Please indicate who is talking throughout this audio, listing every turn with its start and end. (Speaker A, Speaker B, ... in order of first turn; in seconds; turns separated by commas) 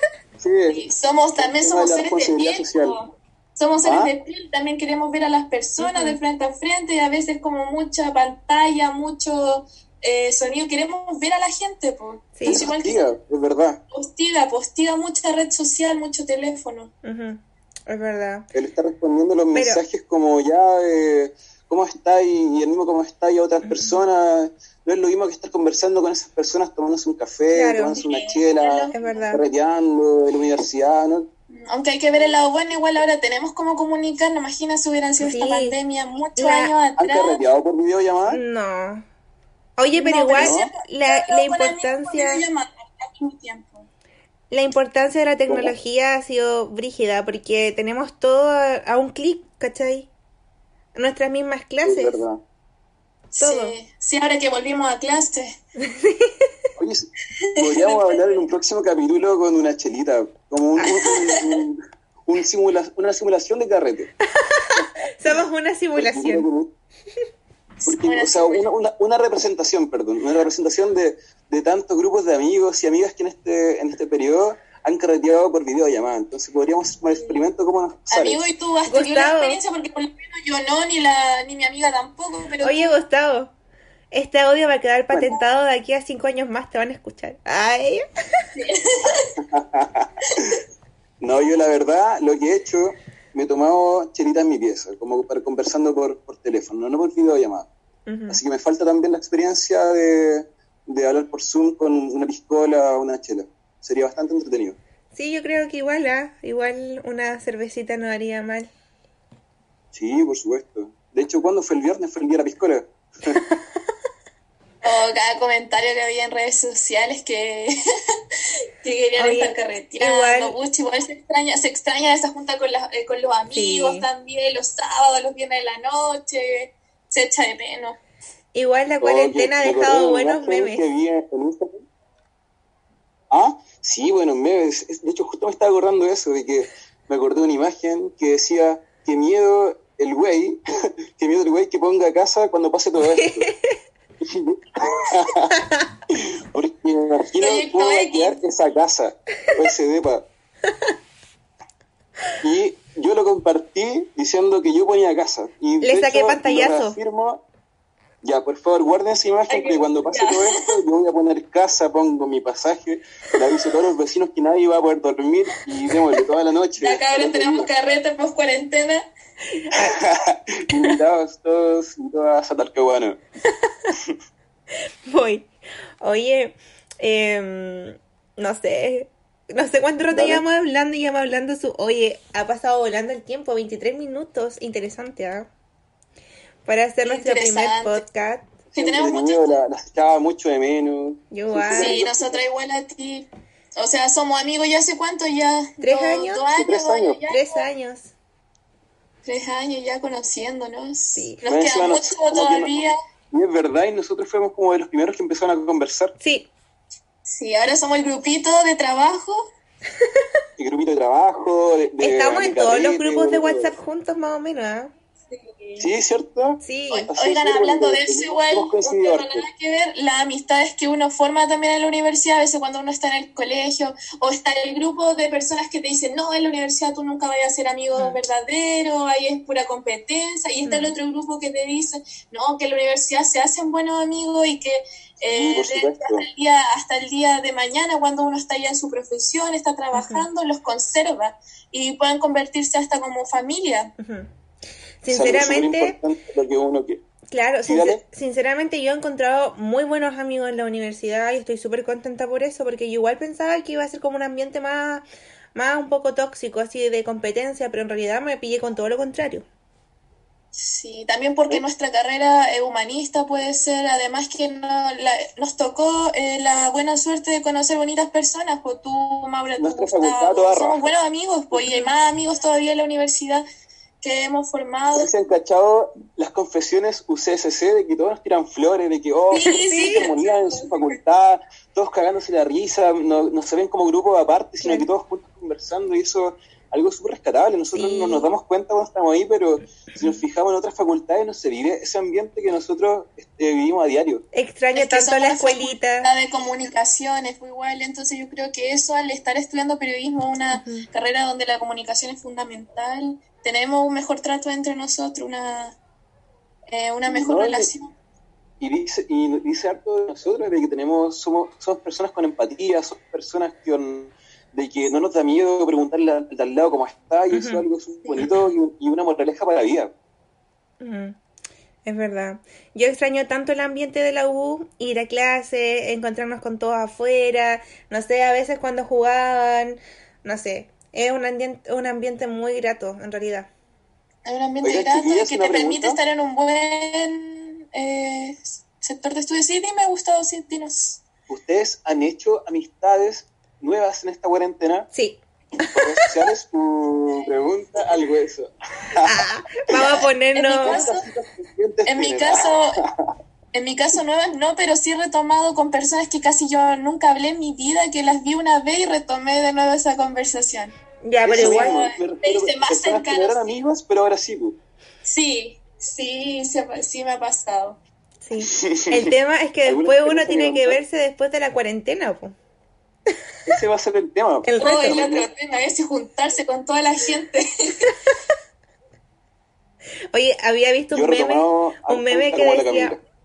Speaker A: 0.4-0.8, Speaker B: 0.7-13.0, Speaker A: 1.4-3.0, Speaker A: 3.8-4.1, Speaker C: 5.8-6.2, Speaker C: 12.4-12.6, Speaker A: 12.5-13.8, Speaker B: 13.9-16.9, Speaker C: 17.0-18.5, Speaker A: 18.5-31.3, Speaker C: 19.5-19.8, Speaker C: 23.6-24.0, Speaker C: 27.5-28.0, Speaker B: 28.0-29.3, Speaker C: 28.9-29.4, Speaker B: 31.5-37.4, Speaker C: 35.2-35.8, Speaker C: 36.4-36.7, Speaker A: 37.0-38.4, Speaker C: 38.3-39.0, Speaker C: 39.8-42.5, Speaker B: 39.9-43.9, Speaker A: 40.4-40.7, Speaker C: 44.5-50.1, Speaker C: 51.0-52.2, Speaker A: 51.9-52.4, Speaker B: 53.3-55.5, Speaker C: 53.4-53.8, Speaker C: 55.8-56.5, Speaker A: 56.8-64.1, Speaker B: 57.4-58.4, Speaker C: 60.8-61.1, Speaker B: 61.0-61.5, Speaker C: 64.4-66.5, Speaker A: 66.0-66.7, Speaker B: 67.8-68.7, Speaker A: 67.9-78.4, Speaker B: 78.1-83.0, Speaker C: 78.9-79.6, Speaker C: 82.6-83.5, Speaker C: 84.1-88.0, Speaker B: 88.5-89.4, Speaker A: 89.4-90.6, Speaker A: 91.2-97.7, Speaker C: 98.1-98.4, Speaker A: 98.3-104.8, Speaker C: 105.1-108.7, Speaker A: 109.9-113.4, Speaker B: 114.8-117.7, Speaker B: 118.8-128.0, Speaker C: 119.2-120.6, Speaker C: 123.5-124.1, Speaker C: 128.5-130.8, Speaker A: 129.0-131.8, Speaker A: 133.3-140.6, Speaker A: 141.1-143.5, Speaker C: 143.0-143.8, Speaker A: 144.2-145.6, Speaker C: 145.5-145.8, Speaker A: 146.1-150.3, Speaker B: 147.4-148.4, Speaker A: 152.4-157.4, Speaker C: 155.8-157.0, Speaker A: 158.2-167.7, Speaker B: 159.5-160.7, Speaker B: 166.8-169.1, Speaker C: 169.6-170.0, Speaker A: 169.7-173.2, Speaker C: 173.7-173.9, Speaker C: 175.1-175.5, Speaker C: 176.0-185.5, Speaker A: 180.1-180.4, Speaker C: 186.7-188.5, Speaker B: 187.1-188.0, Speaker A: 188.7-192.4, Speaker B: 188.8-189.6, Speaker C: 191.3-192.0, Speaker B: 191.7-197.7, Speaker C: 195.8-196.4, Speaker A: 196.6-197.2, Speaker C: 197.3-198.1, Speaker B: 199.2-202.9, Speaker A: 201.4-206.1, Speaker C: 206.2-206.5, Speaker B: 207.2-209.4, Speaker A: 210.6-213.8, Speaker C: 212.0-214.9, Speaker B: 215.3-215.9, Speaker A: 215.8-219.4, Speaker C: 216.6-217.1, Speaker B: 216.9-243.9, Speaker C: 230.7-230.9, Speaker A: 235.2-236.3, Speaker C: 239.9-240.3, Speaker C: 244.0-244.3, Speaker C: 245.0-246.0, Speaker A: 245.1-247.0, Speaker C: 247.3-255.0, Speaker A: 247.7-248.0, Speaker C: 255.6-259.4, Speaker B: 260.6-273.4, Speaker A: 269.6-270.9, Speaker B: 274.0-275.1, Speaker A: 274.9-294.2, Speaker B: 279.3-281.0, Speaker C: 279.4-280.1, Speaker C: 284.6-284.9, Speaker C: 287.7-288.3, Speaker C: 294.3-296.1, Speaker B: 294.8-305.8, Speaker C: 300.5-300.9, Speaker B: 306.7-307.9, Speaker A: 307.1-307.7, Speaker A: 308.6-319.9, Speaker C: 317.3-318.3, Speaker C: 320.8-321.2, Speaker C: 321.9-333.5, Speaker B: 334.2-341.0, Speaker A: 334.6-336.0, Speaker A: 341.3-344.9, Speaker C: 344.9-346.1, Speaker A: 345.7-349.9, Speaker C: 349.0-350.9, Speaker B: 349.8-351.1, Speaker A: 350.6-353.1, Speaker B: 351.9-352.8, Speaker B: 353.5-360.7, Speaker C: 361.0-361.8, Speaker A: 361.2-364.6, Speaker B: 361.3-363.5, Speaker B: 365.1-367.8, Speaker C: 368.2-372.4, Speaker A: 368.5-369.1, Speaker A: 369.7-370.8, Speaker A: 373.5-375.3, Speaker C: 374.4-375.0, Speaker B: 374.6-377.9, Speaker C: 380.1-383.0, Speaker A: 380.9-383.0